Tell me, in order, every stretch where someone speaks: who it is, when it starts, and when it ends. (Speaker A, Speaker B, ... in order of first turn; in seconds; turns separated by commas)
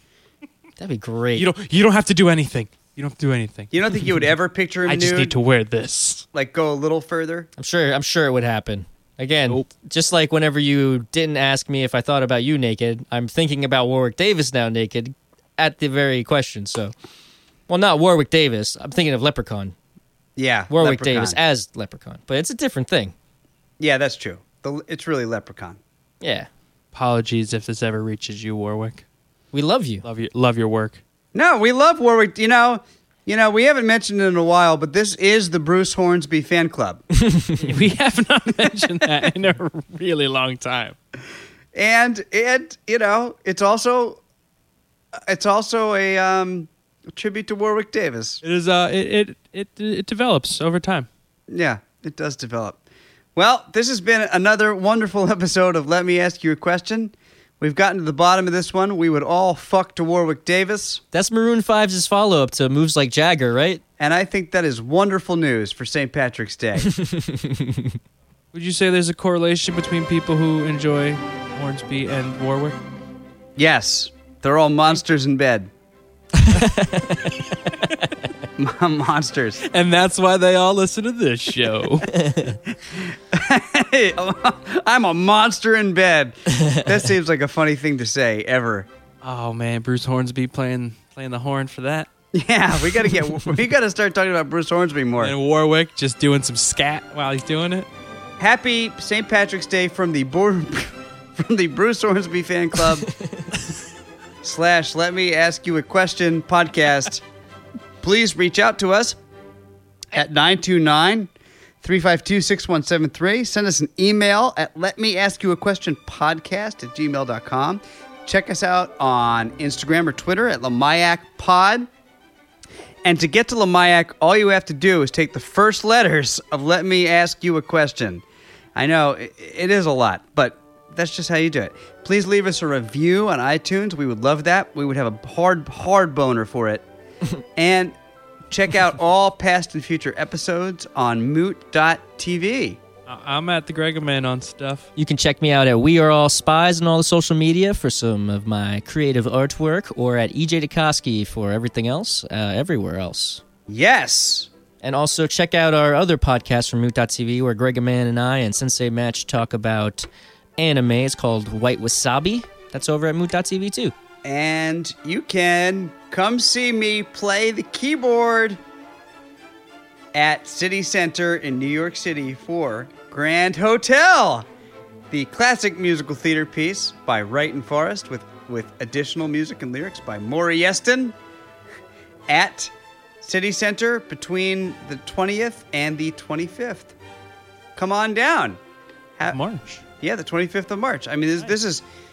Speaker A: 0.8-1.5, Speaker B: 1.4-3.7, Speaker C: 3.7-5.3, Speaker B: 4.8-6.2, Speaker C: 6.3-7.5, Speaker A: 7.6-16.9, Speaker A: 17.7-19.7, Speaker C: 20.4-21.4, Speaker A: 20.7-23.1, Speaker C: 23.8-25.8, Speaker A: 26.2-26.5, Speaker B: 26.9-29.0, Speaker A: 29.5-30.0, Speaker B: 30.0-31.0, Speaker C: 31.3-37.0, Speaker A: 37.2-37.6, Speaker B: 37.6-41.0, Speaker C: 41.7-44.2, Speaker C: 45.3-48.4, Speaker B: 48.4-51.1, Speaker C: 51.5-52.8, Speaker C: 53.4-61.0, Speaker A: 61.1-63.8, Speaker C: 64.0-66.9, Speaker A: 66.8-68.0, Speaker B: 68.5-72.8, Speaker C: 73.6-75.7, Speaker A: 76.4-77.3, Speaker C: 78.6-79.6, Speaker B: 79.6-82.1, Speaker A: 82.1-82.5, Speaker C: 82.9-88.9, Speaker A: 86.5-86.8, Speaker B: 89.2-92.1, Speaker C: 92.3-95.3, Speaker B: 95.2-97.9, Speaker C: 98.4-103.1, Speaker C: 104.4-107.2, Speaker C: 108.0-109.2, Speaker C: 110.1-111.3, Speaker C: 111.8-121.9, Speaker C: 123.0-128.2, Speaker C: 128.7-136.8, Speaker C: 137.6-137.9, Speaker C: 138.5-142.8, Speaker B: 143.1-144.9, Speaker A: 145.0-153.4, Speaker C: 153.7-154.5, Speaker A: 154.8-160.1, Speaker A: 160.6-163.9, Speaker C: 164.2-168.6, Speaker C: 170.1-174.5, Speaker C: 175.1-181.2, Speaker C: 182.3-186.9, Speaker C: 187.8-188.6, Speaker B: 189.2-189.8, Speaker C: 190.0-191.8